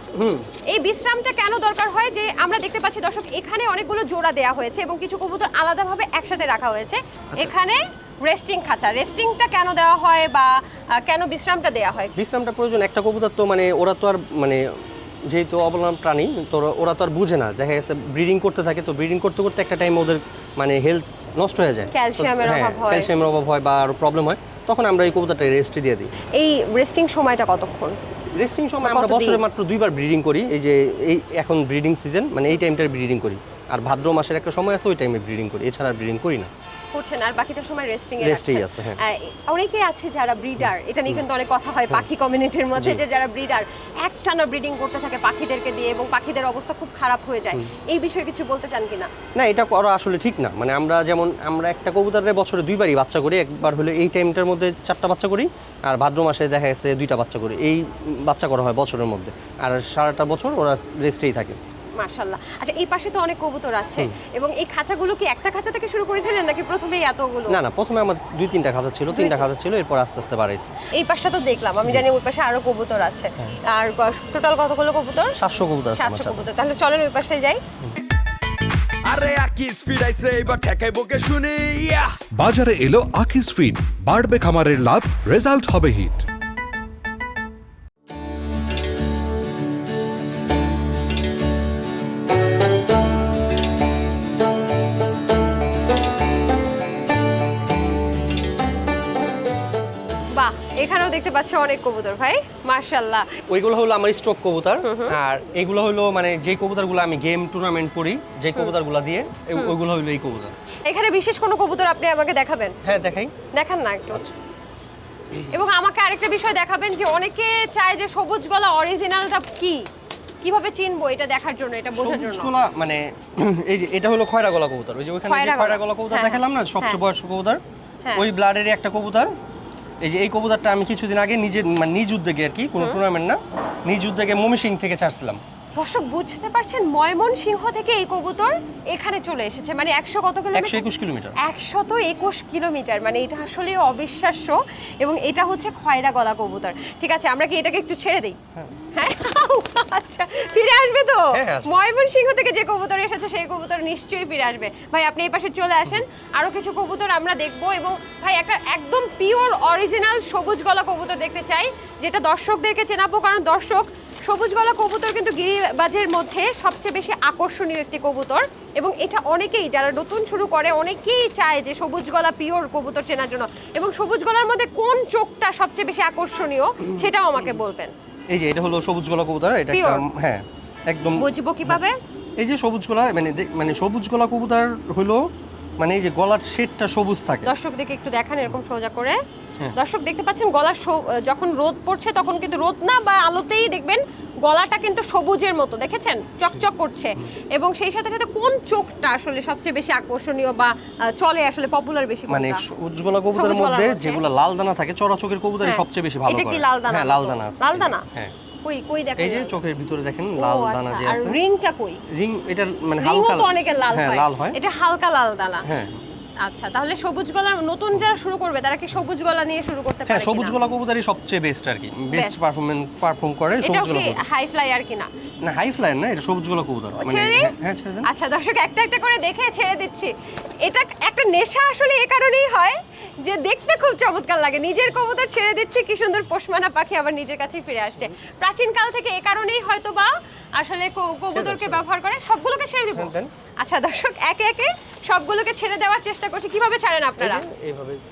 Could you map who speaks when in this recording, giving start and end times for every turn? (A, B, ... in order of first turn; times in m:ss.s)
0:00.1-0:00.5 A
0:00.7-0:12.1 B
0:12.2-0:14.6 A
0:15.3-0:26.1 A
0:21.9-0:23.1 B
0:26.3-0:28.0 B
0:28.3-0:36.5 A
0:28.8-0:29.4 B
0:36.9-0:49.1 B
0:38.2-0:39.0 A
0:40.6-0:41.2 A
0:42.8-0:43.0 A
0:49.4-1:01.6 A
1:02.0-1:07.6 B
1:07.5-1:10.7 A
1:09.1-1:09.5 B
1:11.0-1:15.4 B
1:15.4-1:16.4 A
1:16.0-1:17.6 B
1:19.1-1:22.1 C
1:22.4-1:26.2 D
1:40.3-1:43.4 B
1:43.5-1:50.5 A
1:44.8-1:45.2 B
1:50.9-1:52.7 B
1:52.8-1:53.3 A
1:53.5-1:54.3 B
1:55.5-1:59.8 B
2:00.4-2:02.5 B
2:01.9-2:07.6 A
2:05.3-2:07.0 B
2:08.2-2:09.3 A
2:10.0-2:15.4 A
2:15.8-2:20.8 B
2:20.5-2:21.4 A
2:21.4-2:28.4 B
2:28.9-2:57.9 B
2:31.3-2:31.7 A
2:58.3-3:01.8 A
2:59.7-3:00.0 B
3:01.2-3:02.0 B
3:02.4-3:05.2 A
3:05.8-3:07.5 A
3:07.4-3:09.2 B
3:09.7-3:22.6 B
3:22.3-3:28.3 A
3:23.3-3:24.2 B
3:25.6-3:28.0 B
3:28.6-3:29.6 B
3:29.2-3:31.4 A
3:30.4-3:32.0 B
3:32.1-3:34.6 A
3:33.0-3:35.7 B
3:35.6-3:36.0 A
3:36.4-3:40.6 B
3:40.1-3:44.2 A
3:42.1-3:42.4 B
3:43.6-3:45.1 B
3:45.4-3:48.1 A
3:47.0-4:07.4 B
4:01.3-4:01.8 A
4:02.9-4:03.3 A
4:07.2-4:08.0 A